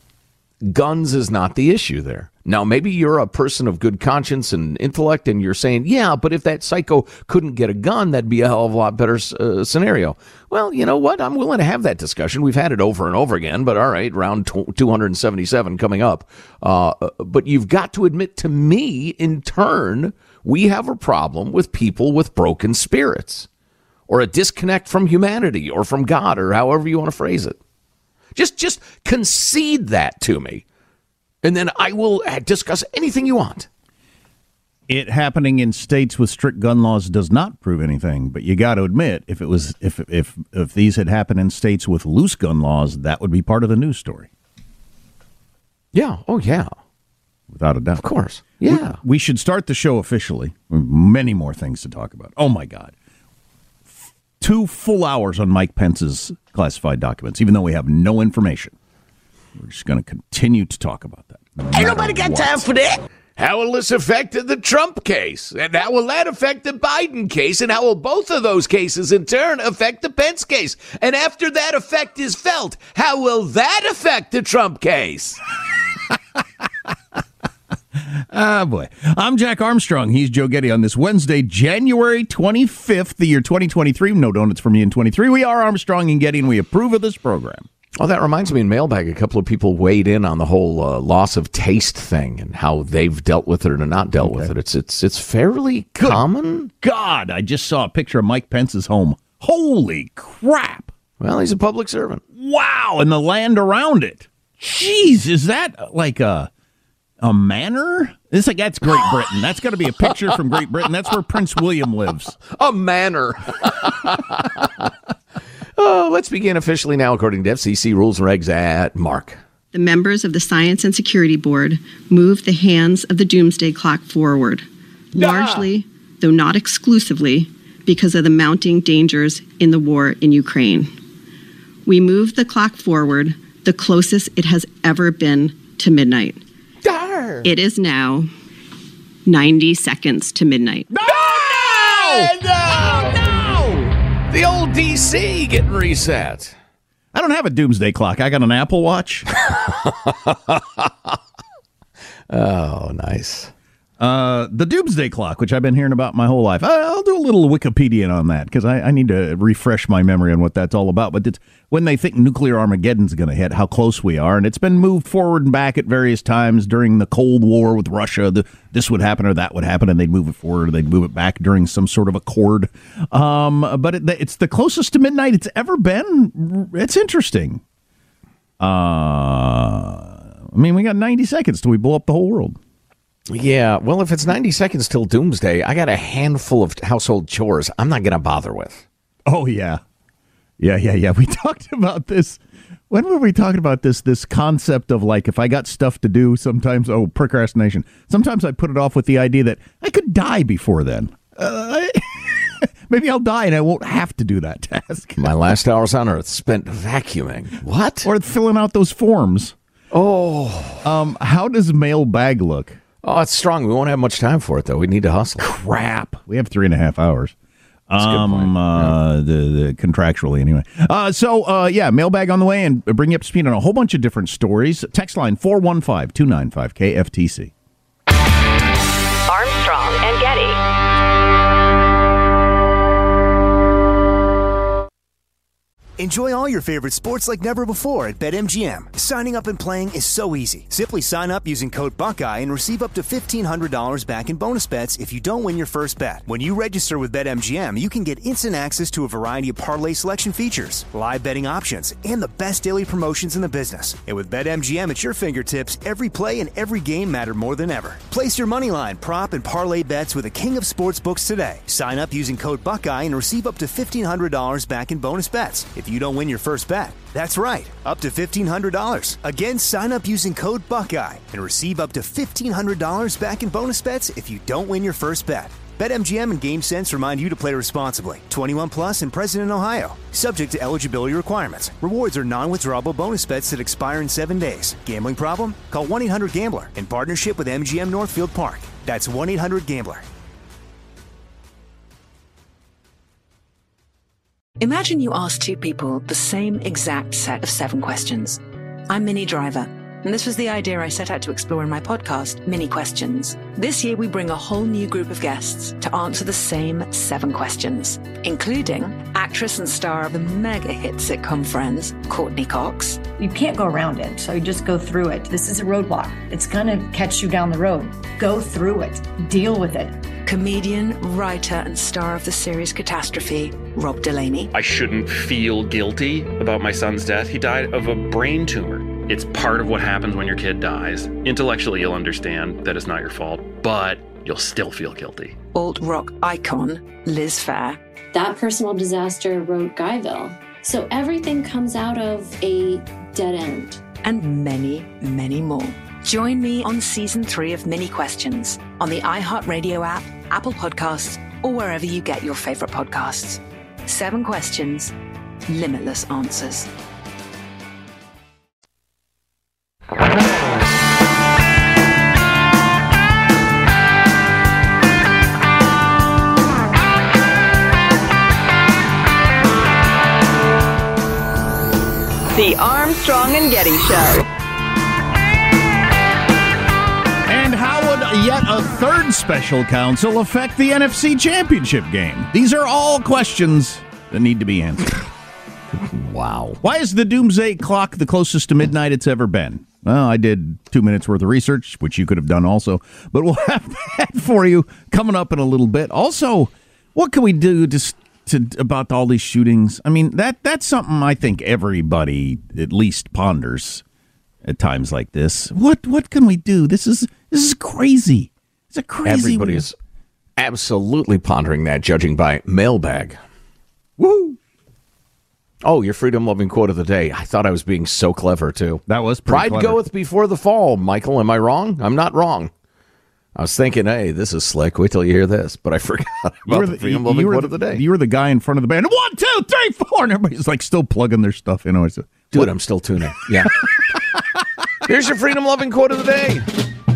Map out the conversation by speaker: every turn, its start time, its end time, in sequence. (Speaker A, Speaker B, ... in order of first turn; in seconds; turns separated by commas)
Speaker A: 0.6-23.5, Speaker A: 24.1-27.6, Speaker A: 28.4-30.6, Speaker A: 31.4-33.7, Speaker B: 34.9-44.3, Speaker A: 45.9-46.7, Speaker B: 47.5-48.0, Speaker A: 48.0-49.0, Speaker B: 48.6-53.0, Speaker B: 54.4-58.7, Speaker B: 59.5-62.7, Speaker A: 61.7-75.4, Speaker B: 78.0-87.7, Speaker A: 88.0-96.7, Speaker B: 94.2-94.5, Speaker B: 96.8-100.9, Speaker A: 101.2-102.2, Speaker B: 102.4-106.5, Speaker B: 107.2-112.4, Speaker A: 112.5-114.9, Speaker A: 115.8-119.4, Speaker C: 119.7-130.9, Speaker A: 125.2-125.7, Speaker C: 131.9-136.4, Speaker A: 136.8-137.5, Speaker C: 137.4-138.3, Speaker C: 139.3-140.9, Speaker B: 140.9-143.9, Speaker A: 141.1-143.3, Speaker A: 144.3-146.6, Speaker B: 147.1-149.3, Speaker A: 149.5-151.2, Speaker A: 152.3-153.5, Speaker B: 154.0-177.6, Speaker B: 178.6-182.6, Speaker A: 183.3-188.8, Speaker B: 189.3-189.8, Speaker B: 190.6-205.2, Speaker A: 205.2-208.1, Speaker B: 208.0-209.6, Speaker A: 209.9-210.9, Speaker B: 210.8-212.8, Speaker A: 213.0-215.4, Speaker B: 215.4-217.3, Speaker B: 217.9-227.5, Speaker A: 218.0-219.0, Speaker D: 229.3-230.6, Speaker E: 236.0-290.1, Speaker F: 294.6-313.0, Speaker G: 313.2-319.9, Speaker F: 320.3-324.5, Speaker H: 324.5-335.4, Speaker F: 335.5-337.8, Speaker I: 338.1-343.8, Speaker F: 344.0-354.9, Speaker F: 355.5-356.7, Speaker D: 372.3-374.3, Speaker B: 377.3-385.1, Speaker A: 385.8-386.6, Speaker B: 386.6-403.8, Speaker B: 404.4-409.7, Speaker A: 409.1-409.8, Speaker A: 410.4-413.2, Speaker B: 414.0-414.4, Speaker A: 415.6-422.5, Speaker B: 418.9-419.8, Speaker A: 423.4-427.8, Speaker B: 426.5-432.5, Speaker A: 432.3-433.5, Speaker B: 433.3-434.4, Speaker A: 434.9-436.5